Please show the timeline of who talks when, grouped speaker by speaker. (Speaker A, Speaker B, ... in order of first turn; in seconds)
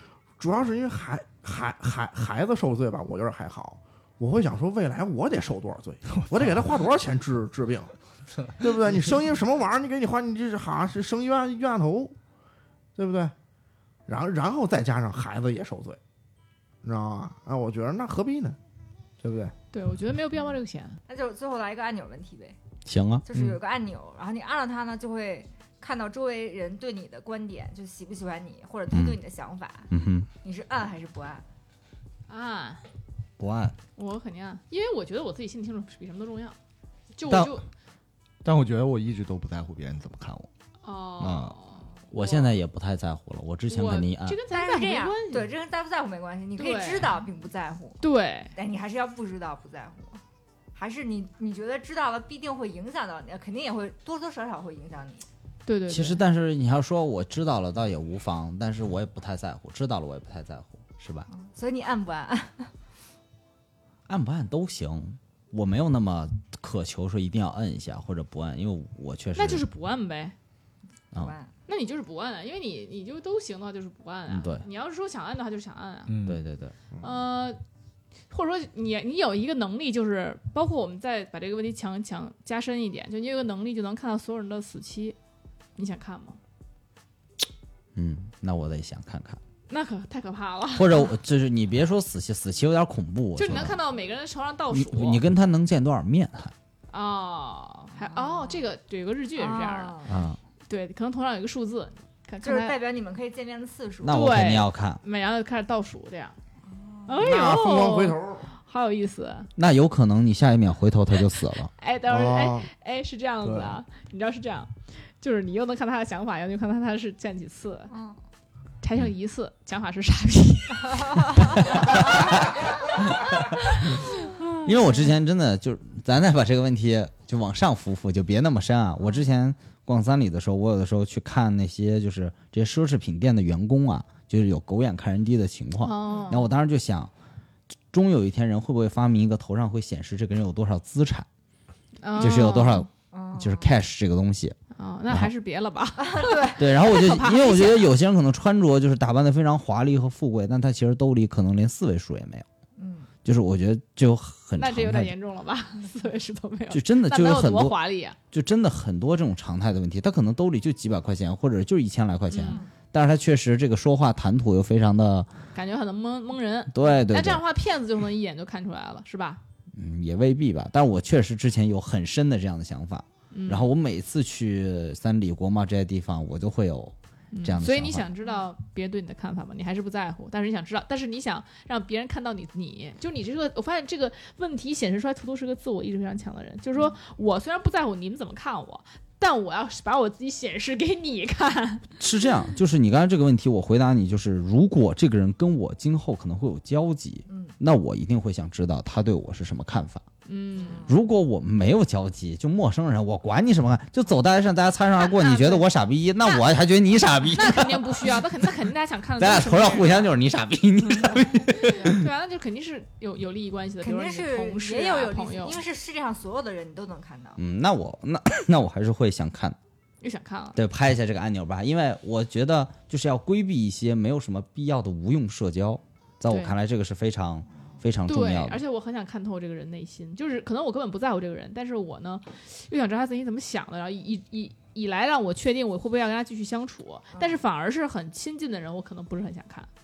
Speaker A: 0.4-7.9, 8.6-12.1, 12.9-13.3, 14.1-16.0, 16.8-18.6, 19.2-19.5, 107.2-108.5, 112.1-112.7
Speaker B: 6.1-6.7, 33.4-33.8, 37.3-37.6, 38.4-40.5, 41.2-41.5, 76.1-76.4, 113.4-113.8
Speaker C: 19.7-21.0, 32.3-32.8, 34.0-36.5, 37.1-37.6, 40.8-42.5, 43.7-45.5, 46.6-47.2, 48.0-48.5, 55.6-56.2, 69.3-70.3, 71.7-76.2, 77.0-77.6, 78.3-85.2, 85.8-86.4, 89.7-91.1, 93.3-95.2, 96.9-100.0, 100.7-102.8, 104.0-106.4, 107.1-109.5, 111.8-117.9, 118.8-122.4, 135.8-136.4, 142.0-142.8, 144.7-147.9, 154.6-158.2, 162.3-162.6, 165.5-169.4, 173.3-173.7, 177.3-191.9, 200.2-200.9, 205.0-205.7, 207.3-210.1, 211.4-215.6, 220.0-220.6, 226.3-226.5, 228.1-239.7
Speaker D: 21.1-22.6, 23.2-29.9, 30.4-31.4, 44.5-48.0, 48.5-50.2, 50.7-55.2, 61.3-62.7, 71.1-71.5, 98.0-98.7, 99.4-100.2, 102.4-104.2, 106.7-107.2, 117.9-118.2, 124.3-125.1, 136.1-136.4, 143.1-143.8, 146.0-146.7, 152.8-153.1, 197.3-197.5, 200.6-201.0, 213.8-217.4, 237.1-237.4
Speaker E: 22.9-23.6, 28.9-29.2, 29.9-30.3, 42.1-44.4, 55.9-61.3, 64.1-69.6, 74.3-74.6, 76.2-76.7, 87.9-89.4, 90.7-93.8, 94.7-96.5, 100.1-100.4, 104.0-105.0, 109.6-111.7, 124.6-137.1, 137.9-141.3, 142.2-144.6, 146.5-152.4, 153.2-155.1, 156.7-157.8, 158.3-165.3, 166.7-167.4, 169.7-178.1, 192.0-200.0, 200.8-208.2, 209.2-212.1, 217.4-219.6, 220.6-228.6